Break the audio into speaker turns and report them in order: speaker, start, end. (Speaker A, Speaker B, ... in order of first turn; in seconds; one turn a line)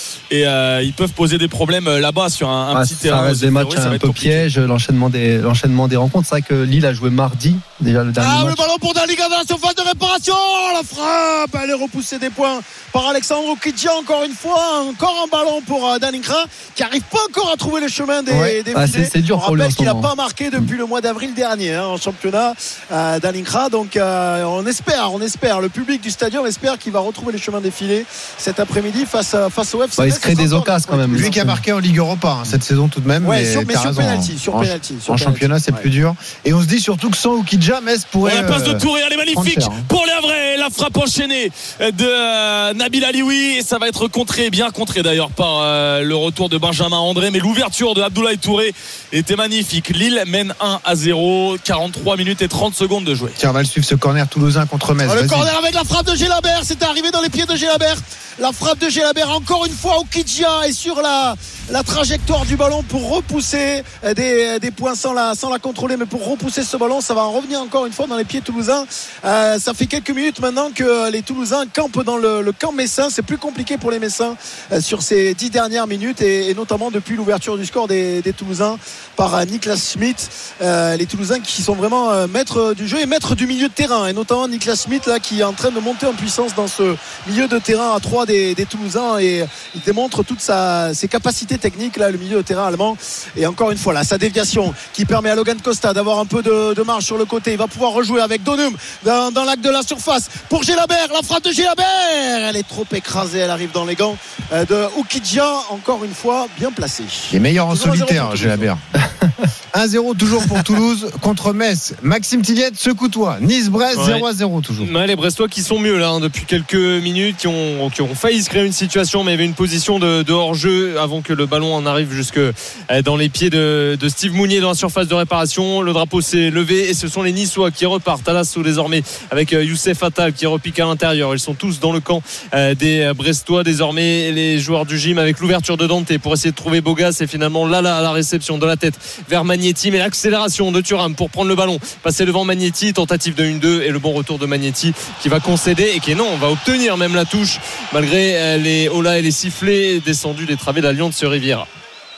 Speaker A: 0.3-4.5
Speaker B: 2.7-8.6
Speaker C: 8.2-31.5
Speaker D: 18.3-18.6
Speaker B: 18.7-20.1
Speaker B: 30.0-31.6
Speaker D: 31.1-39.9
Speaker C: 33.2-35.9
Speaker A: 38.2-53.4
Speaker D: 53.4-55.5
Speaker C: 55.0-108.7
Speaker D: 107.3-108.8
Speaker D: 109.7-114.9
Speaker E: 113.9-114.3
Speaker E: 114.8-151.7